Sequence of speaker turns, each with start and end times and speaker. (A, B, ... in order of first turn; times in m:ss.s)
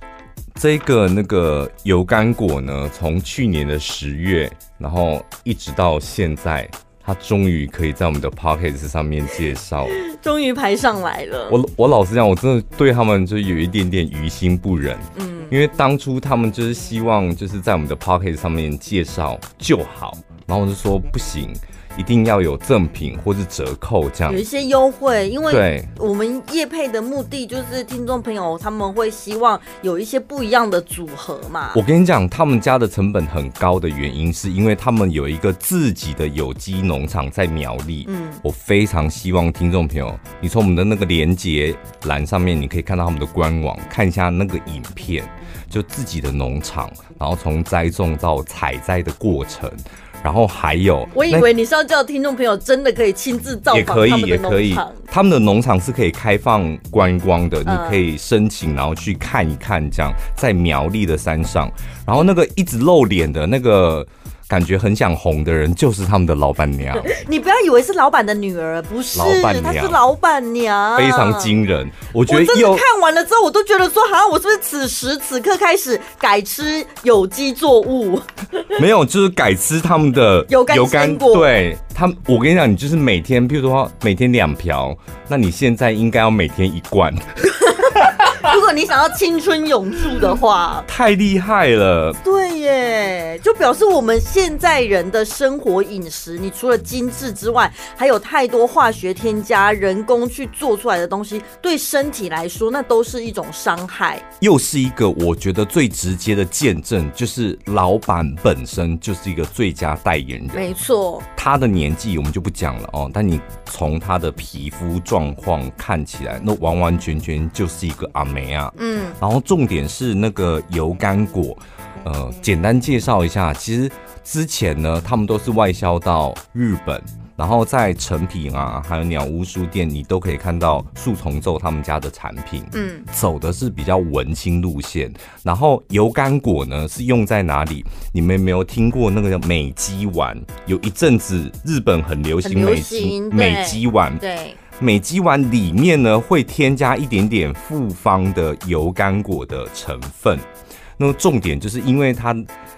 0:00.6-0:10.0 A
0:10.0-0:11.6 B
0:11.5-0:24.4 A
0:15.2-0:15.6 B
0:24.3-0:31.8 B
0:25.5-0:25.9 A
0:31.7-0:51.5 A
0:38.1-0:38.4 B
0:51.1-0:55.0 B
0:53.7-1:07.1 A
0:57.7-0:58.1 B
1:07.0-1:11.6 B
1:09.1-1:10.0 A
1:11.0-1:12.9 A
1:12.3-1:18.8 B
1:18.8-1:28.6 A
1:20.5-1:21.5 B
1:27.6-1:30.9 B
1:30.9-1:32.2 A
1:32.2-1:44.2 B
1:44.4-1:50.7 A
1:50.5-1:51.3 B
1:51.4-2:24.2 A
1:58.8-1:59.2 B
2:12.7-2:13.1 B
2:22.4-2:24.6 B
2:24.8-2:30.5 A
2:31.0-2:32.5 A